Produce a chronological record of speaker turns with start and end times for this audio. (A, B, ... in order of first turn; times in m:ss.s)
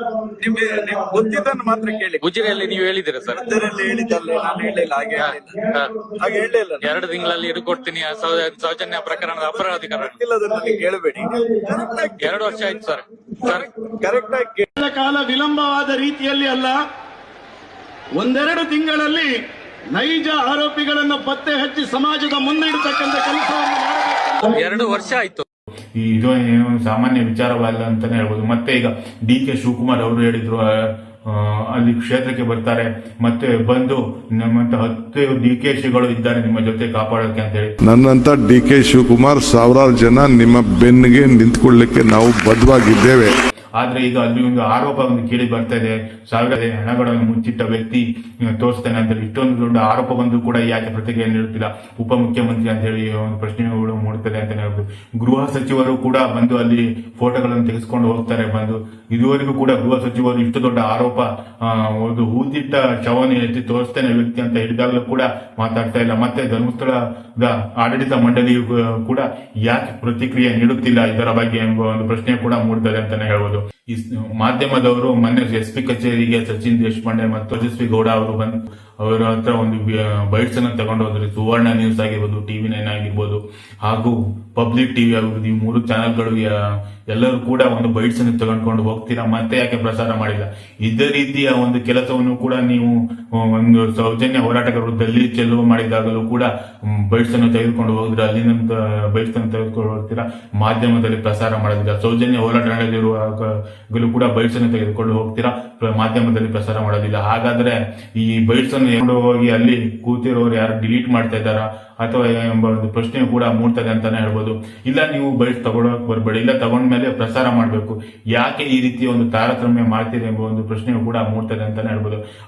0:00.4-0:02.2 A
0:02.2-0:03.5 B
0:03.3-0:05.5 A
0:05.1-0:06.0 B
0:06.2-0:06.9 A
0:06.8-0:10.2 B
0:09.1-0:12.8 A
0:12.2-0:13.7 B
0:13.9-0:14.7 A
0:14.8-0:16.7 C
0:18.2-0:19.3 C
0:19.9-0:24.6 C
0:24.4-0:25.4 B
0:26.0-0:37.7 D
0:37.8-0:43.4 E
0:43.8-1:26.5 D
1:27.1-2:02.2 D